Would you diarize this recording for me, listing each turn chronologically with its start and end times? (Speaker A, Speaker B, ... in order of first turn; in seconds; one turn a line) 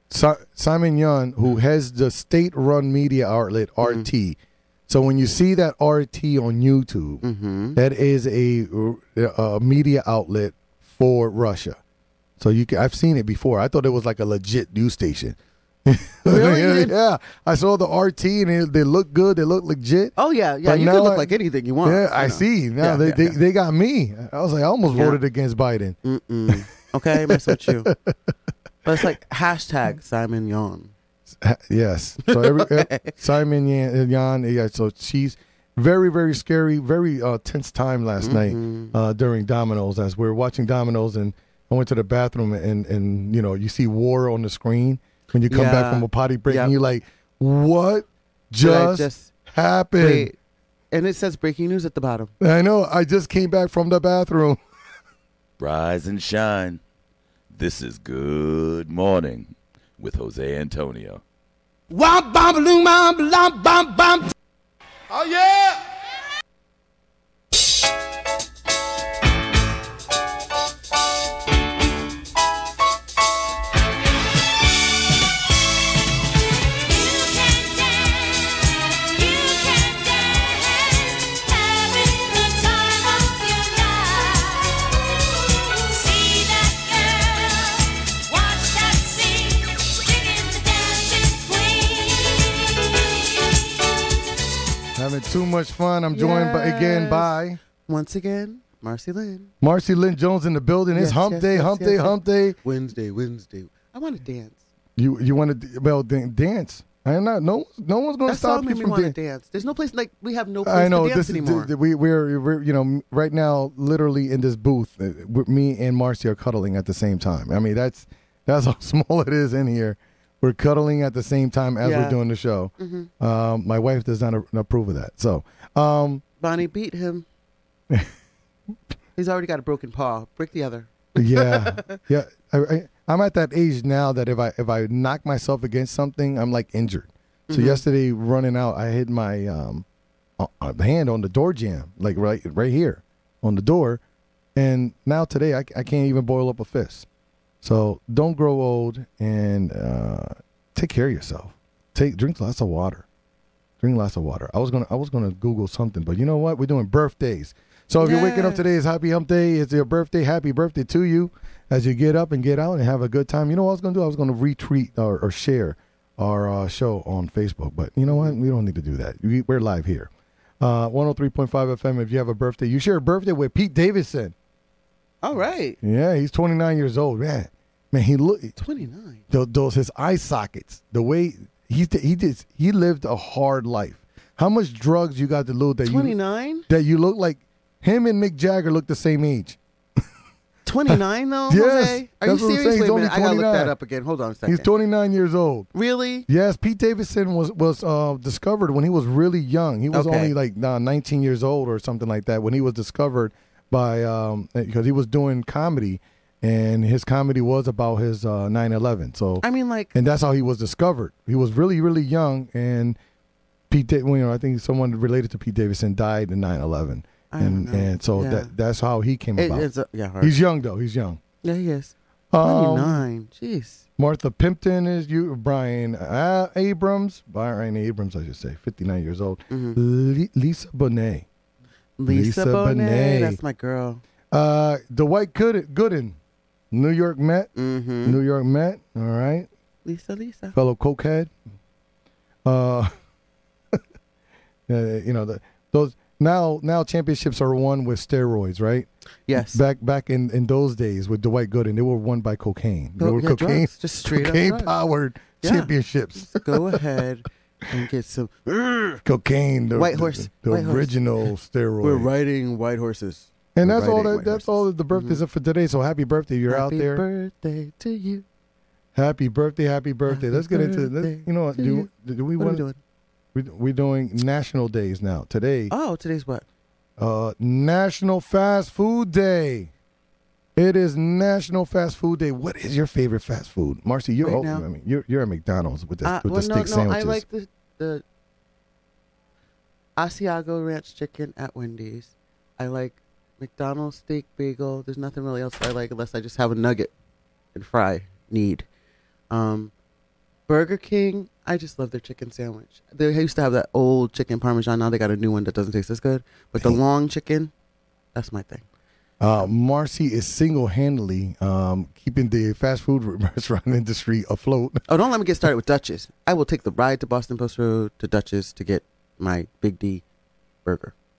Speaker A: 0.1-7.2
Speaker B: 3.8-4.1
Speaker B: 7.2-7.8
Speaker A: 7.8-11.8
Speaker A: 12.4-21.3
Speaker B: 16.2-16.9
Speaker B: 20.2-23.4
Speaker A: 21.8-26.0
Speaker B: 24.9-25.2
Speaker B: 26.0-27.9
Speaker A: 27.1-28.1
Speaker B: 28.8-30.9
Speaker A: 31.3-50.3
Speaker B: 32.2-33.2
Speaker B: 38.2-38.9
Speaker B: 45.5-46.7
Speaker B: 48.6-49.3
Speaker B: 50.0-50.3
Speaker B: 50.9-52.3
Speaker A: 52.4-54.6
Speaker C: 55.6-56.8
Speaker C: 57.5-61.2
Speaker D: 61.9-64.3
Speaker D: 65.1-65.8
Speaker D: 76.8-93.7
Speaker A: 94.9-97.6
Speaker B: 96.1-99.5
Speaker A: 99.6-102.6
Speaker B: 100.9-104.6
Speaker A: 105.0-109.1
Speaker B: 108.3-111.7
Speaker A: 110.6-126.2
Speaker B: 121.8-122.2
Speaker B: 122.8-123.1
Speaker B: 126.4-127.2
Speaker B: 129.2-132.0
Speaker A: 131.2-139.8
Speaker B: 137.5-137.8
Speaker A: 140.4-144.0
Speaker A: 144.6-147.1
Speaker A: 147.6-153.1
Speaker A: 153.8-174.3
Speaker B: 158.0-158.6
Speaker B: 168.1-168.4
Speaker B: 175.2-175.8
Speaker A: 175.8-178.5
Speaker B: 178.6-179.2
Speaker A: 179.3-186.1
Speaker B: 185.8-186.7
Speaker A: 186.7-189.6
Speaker B: 190.7-194.7
Speaker A: 190.9-193.7
Speaker A: 194.4-195.7
Speaker B: 195.7-196.3
Speaker A: 196.3-213.0
Speaker B: 199.9-200.3
Speaker B: 209.4-209.9
Speaker A: 213.7-219.7
Speaker B: 217.3-218.5
Speaker B: 219.4-220.3
Speaker A: 220.2-221.2
Speaker B: 221.4-223.8
Speaker A: 222.3-223.1
Speaker A: 224.0-231.3
Speaker B: 229.5-229.8
Speaker B: 232.0-234.0
Speaker A: 232.1-233.4
Speaker A: 234.3-236.2
Speaker A: 236.7-237.5
Speaker B: 237.5-238.2
Speaker A: 238.0-239.5
Speaker B: 239.8-240.5
Speaker A: 240.5-241.3
Speaker A: 242.4-242.9
Speaker A: 244.7-256.8
Speaker B: 249.3-249.6
Speaker B: 253.0-254.7
Speaker B: 255.4-259.0
Speaker A: 259.0-262.1
Speaker B: 259.7-261.0
Speaker B: 261.8-265.2
Speaker A: 263.5-267.0
Speaker B: 266.5-268.2
Speaker A: 268.9-272.6
Speaker B: 270.1-272.8
Speaker A: 273.3-275.7
Speaker B: 275.7-276.4
Speaker A: 277.0-279.7
Speaker A: 280.6-287.2
Speaker B: 284.2-284.6
Speaker B: 286.0-288.0
Speaker B: 289.9-296.9
Speaker B: 297.5-298.6
Speaker B: 299.3-299.7
Speaker B: 300.5-307.5
Speaker B: 308.1-308.6
Speaker A: 309.2-314.8
Speaker B: 314.9-320.0
Speaker B: 320.6-320.9